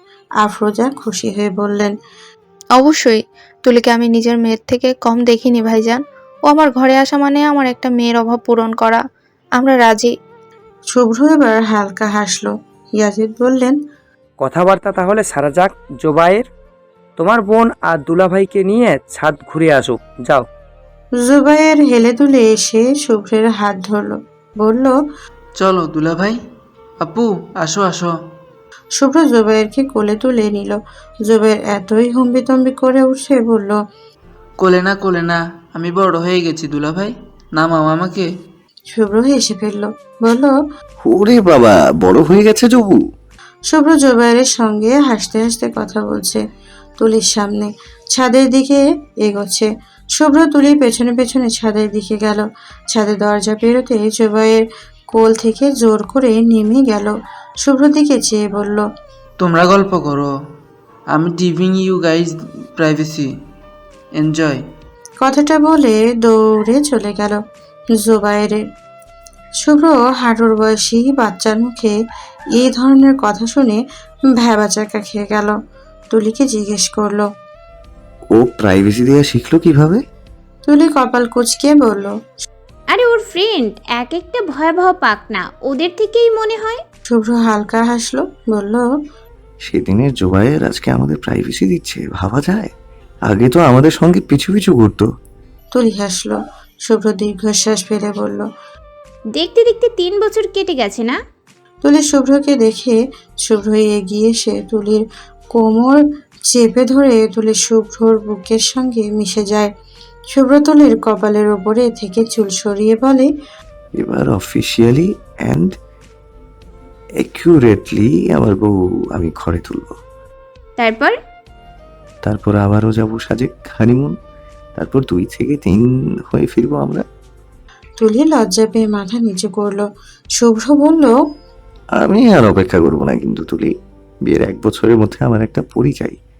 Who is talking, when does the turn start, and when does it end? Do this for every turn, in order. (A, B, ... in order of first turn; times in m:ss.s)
0:00.4-0:01.9 A
0:02.8-0:09.0 B
0:09.6-0:10.1 B
0:10.9-0:13.8 A
0:14.4-0:16.5 C
0:17.2-0:20.4 C
0:21.2-0:24.9 A
0:25.6-0:26.4 D
0:27.0-0:28.1 D
0:29.0-0:33.8 A
0:34.6-0:38.3 D
0:38.9-0:40.5 A
0:41.0-0:43.0 E
0:43.7-0:46.4 A
0:47.0-0:58.8 A
0:59.4-1:00.3 D
1:01.1-1:03.3 D
1:04.2-1:04.6 D
1:05.2-1:07.4 A
1:08.0-1:08.6 A
1:09.6-1:11.9 A
1:12.6-1:13.8 A
1:14.4-1:15.5 A
1:16.1-1:17.3 A
1:18.3-1:20.0 E
1:20.6-1:22.1 A
1:22.9-1:26.8 F
1:27.1-1:28.8 A
1:29.6-1:32.7 E
1:33.3-1:35.1 E
1:35.7-1:38.4 A
1:39.3-1:41.2 F
1:41.8-1:45.0 A
1:45.5-1:49.7 A
1:50.3-1:53.3 A
1:54.0-1:55.7 E
1:57.2-2:00.0 E
2:00.8-2:01.1 F
2:02.2-2:04.1 E
2:04.8-2:07.0 E
2:08.0-2:09.8 A
2:10.4-2:11.1 A
2:12.0-2:13.7 E
2:14.2-2:16.2 E